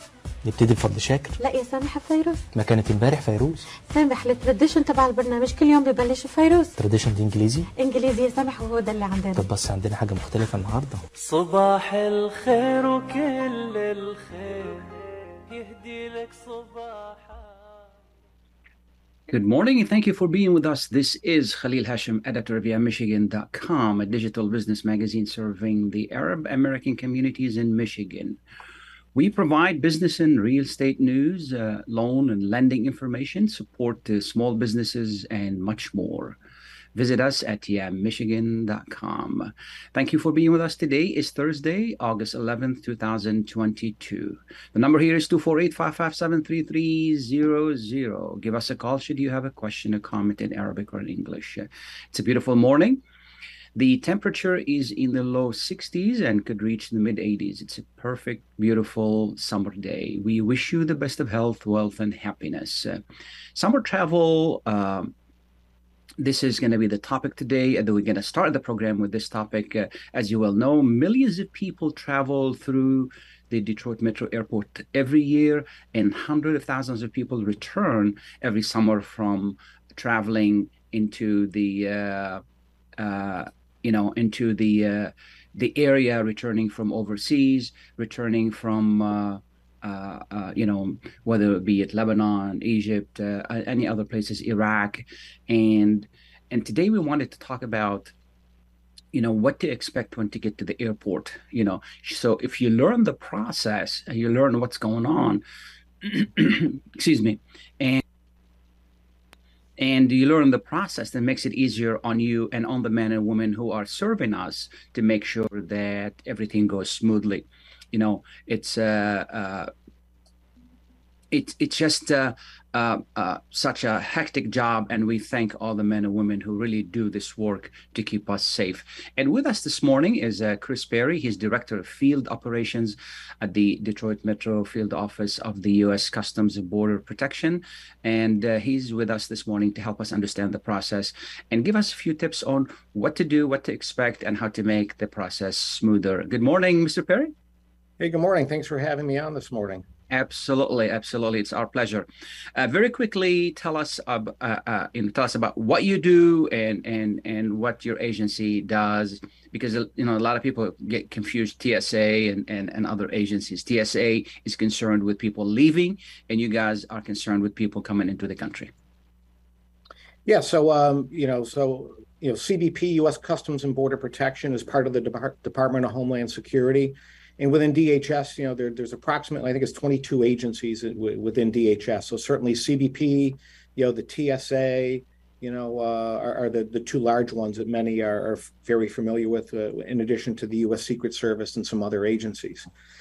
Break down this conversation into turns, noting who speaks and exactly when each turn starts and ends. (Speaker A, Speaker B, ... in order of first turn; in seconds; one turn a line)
Speaker A: 0.4-1.4
Speaker B: 1.4-2.4
Speaker A: 2.5-3.6
Speaker B: 3.9-6.7
Speaker A: 6.8-7.7
Speaker B: 7.8-9.4
Speaker A: 9.4-11.0
Speaker C: 11.2-14.9
Speaker C: 15.5-17.8
Speaker D: 19.3-28.4
Speaker D: 29.1-36.4
Speaker D: 37.0-53.0
Speaker D: 53.8-63.0
Speaker D: 63.5-65.1
Speaker D: 66.2-82.4
Speaker D: 83.0-98.1
Speaker D: 99.1-105.4
Speaker D: 106.0-108.0
Speaker D: 109.8-119.7
Speaker D: 121.3-147.3
Speaker E: 148.0-149.8
Speaker D: 150.1-168.7
Speaker E: 170.3-192.7